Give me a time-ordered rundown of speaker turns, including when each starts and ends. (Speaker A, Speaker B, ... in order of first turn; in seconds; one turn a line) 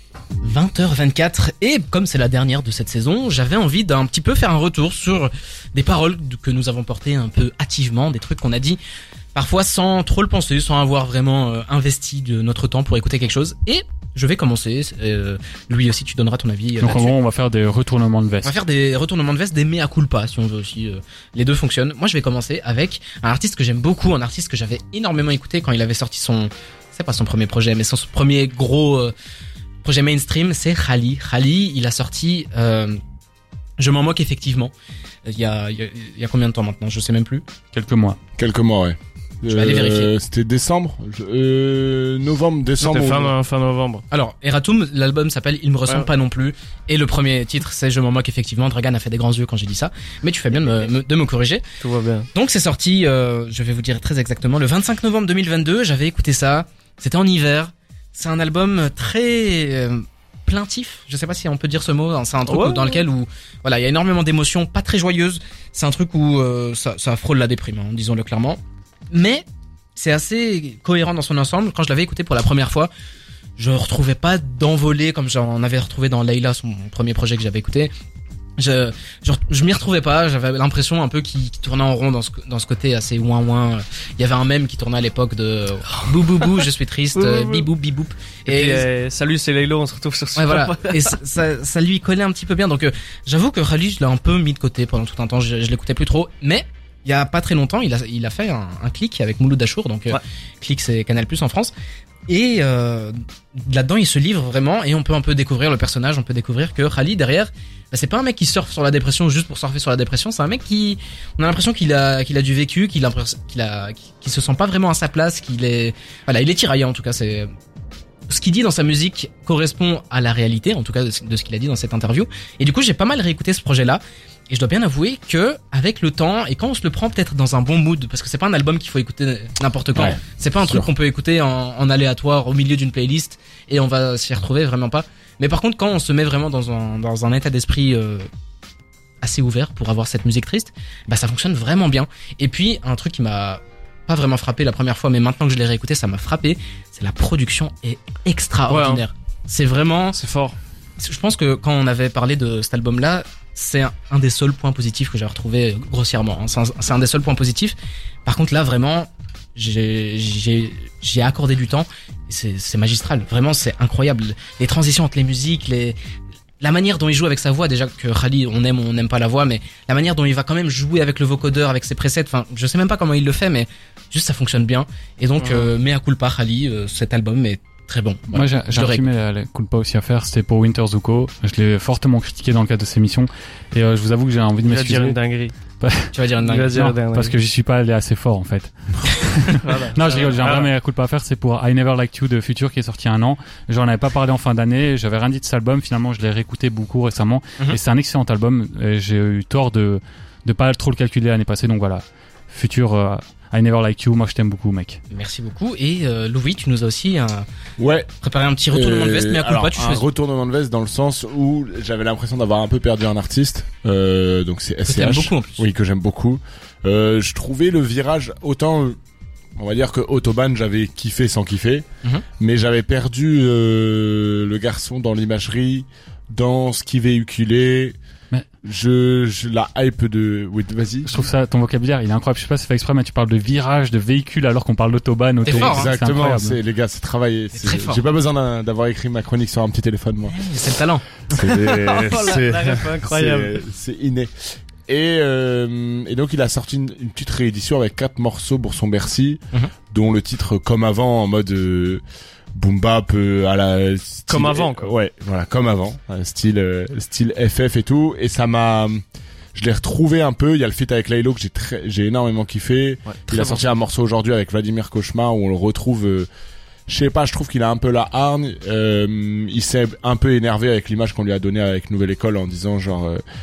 Speaker A: 0.4-8.8
Speaker A: 9.3-17.2
Speaker B: 16.8-18.6
Speaker A: 18.4-29.1
Speaker A: 29.8-33.0
Speaker A: 33.8-34.7
Speaker A: 35.2-37.5
Speaker B: 37.7-38.2
Speaker C: 38.4-43.4
Speaker A: 39.5-40.1
Speaker D: 42.8-44.0
Speaker A: 44.1-51.6
Speaker D: 51.8-52.3
Speaker A: 52.3-68.6
Speaker D: 62.5-63.0
Speaker A: 69.1-69.5
Speaker A: 70.0-72.9
Speaker A: 73.6-77.9
Speaker A: 78.6-88.9
Speaker D: 86.4-87.7
Speaker D: 88.5-91.2
Speaker A: 90.4-101.7
Speaker A: 102.3-117.5
Speaker A: 118.3-138.3
Speaker C: 130.0-130.9
Speaker A: 139.2-150.2
Speaker D: 148.7-149.0
Speaker D: 150.2-150.6
Speaker A: 151.0-157.8
Speaker A: 158.3-166.0
Speaker A: 166.6-179.1
Speaker D: 175.4-175.7
Speaker B: 178.3-185.2
Speaker D: 184.7-185.6
Speaker B: 185.8-186.2
Speaker A: 186.1-186.9
Speaker D: 186.4-187.3
Speaker B: 186.7-205.0
Speaker D: 189.6-190.7
Speaker A: 205.1-207.5
Speaker C: 207.8-208.1
Speaker A: 208.2-210.1
Speaker C: 208.7-219.0
Speaker A: 214.8-215.6
Speaker C: 219.6-221.9
Speaker C: 222.4-228.0
Speaker C: 228.6-231.2
Speaker B: 231.1-236.6
Speaker A: 235.4-235.9
Speaker C: 235.5-240.4
Speaker A: 237.6-238.0
Speaker A: 240.3-241.1
Speaker C: 241.3-252.0
Speaker D: 241.5-243.6
Speaker C: 252.5-259.0
Speaker D: 254.3-254.9
Speaker C: 259.6-266.3
Speaker D: 263.1-263.7
Speaker C: 266.9-273.2